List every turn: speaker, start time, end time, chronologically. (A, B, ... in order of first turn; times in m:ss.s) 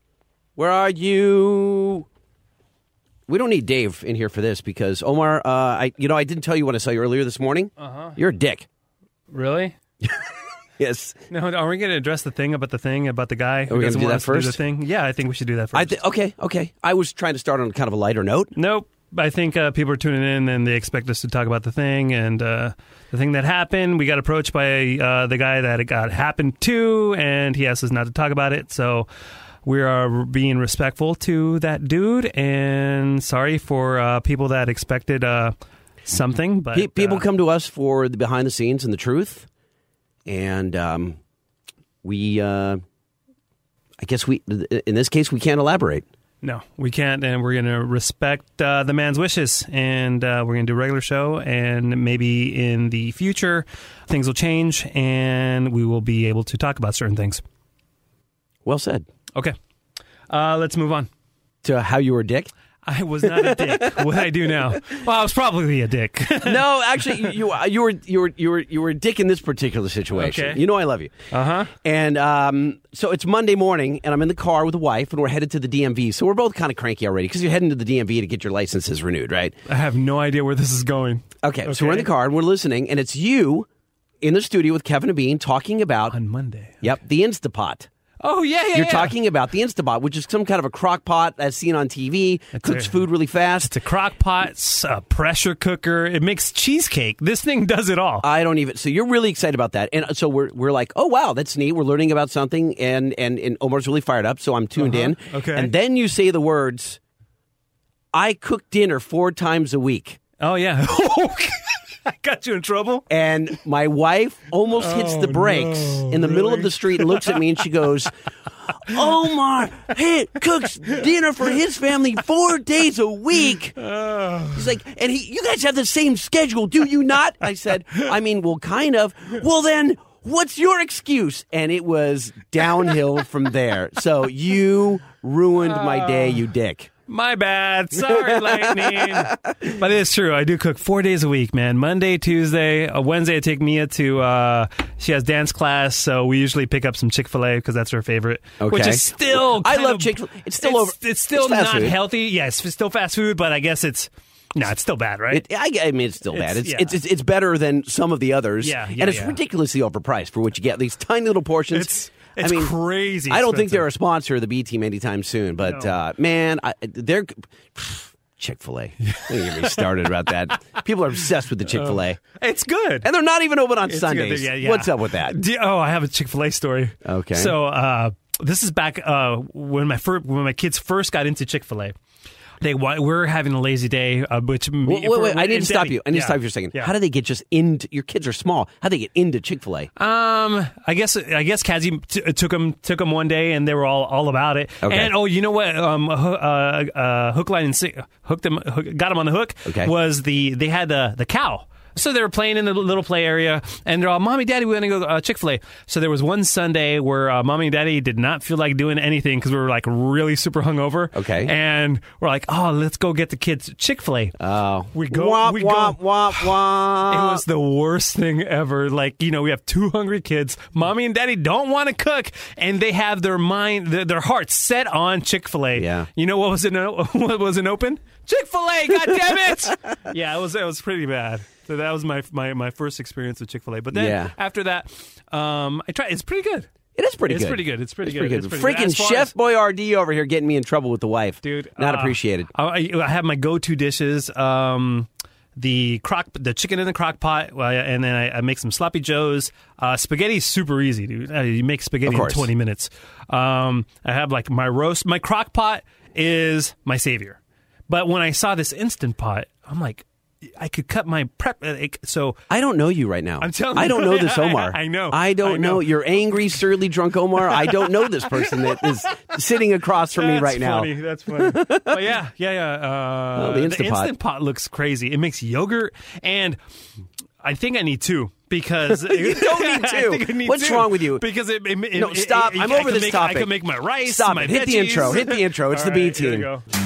0:00.6-0:02.0 A
0:03.3-0:08.6 A
0:07.8-0:08.2 B
0:09.3-0:09.8 B
0:10.8-0:11.2 A
0:11.3-0:16.0 B
0:13.7-0:14.6 A
0:15.7-0:18.5 A
0:18.5-0:29.1 B
0:29.6-0:35.5 B
0:36.0-0:37.2 B
0:36.7-0:39.5 A
0:40.2-0:41.2 A
0:42.0-0:42.8 A
0:44.0-0:46.0 A
0:46.4-0:57.4 B
0:58.6-0:59.1 A
1:00.3-1:01.1 B
1:01.6-1:02.5 A
1:02.8-1:07.3 B
1:03.2-1:04.0 A
1:06.4-1:11.1 A
1:10.1-1:10.6 B
1:11.3-1:11.7 B
1:11.8-1:19.6 A
1:19.7-1:22.1 B
1:21.4-1:23.7 A
1:24.2-1:26.1 A
1:26.1-1:26.9 B
1:26.8-1:27.9 A
1:28.2-1:29.1 B
1:28.7-1:33.7 A
1:32.5-1:33.1 B
1:33.6-1:38.2 B
1:38.2-1:47.0 A
1:44.8-1:45.7 B
1:48.1-1:50.2 A
1:50.4-1:53.0 B
1:53.1-1:58.1 A
1:54.8-1:57.4 B
1:58.8-2:03.8 A
2:03.8-2:04.6 B
2:04.5-2:16.9 A
2:15.6-2:16.4 B
2:17.1-2:35.4 B
2:19.2-2:19.5 A
2:28.6-2:32.0 A
2:35.3-2:42.7 A
2:36.3-2:37.0 B
2:38.6-2:39.4 B
2:41.7-2:43.9 B
2:43.3-2:52.2 A
2:45.6-2:45.9 B
2:49.0-2:49.8 B
2:51.6-2:53.1 B
2:53.0-2:55.4 A
2:53.8-3:01.9 B
2:57.0-2:57.6 A
3:02.6-3:06.9 B
3:04.8-3:09.9 A
3:10.0-3:34.3 B
3:14.8-3:15.1 A
3:19.7-3:19.9 A
3:31.1-3:31.5 A
3:34.4-3:37.4 A
3:34.9-3:36.5 B
3:37.1-3:56.7 B
3:45.8-3:46.1 A
3:53.9-3:54.3 A
3:57.0-4:02.5 A
3:57.2-3:59.3 B
4:01.4-4:22.4 B
4:12.0-4:12.5 A
4:22.5-4:32.0 A
4:23.4-4:26.4 B
4:28.3-4:28.8 B
4:30.1-4:36.6 B
4:33.4-4:34.1 A
4:37.4-4:46.6 B
4:38.9-4:41.2 A
4:41.9-4:46.5 A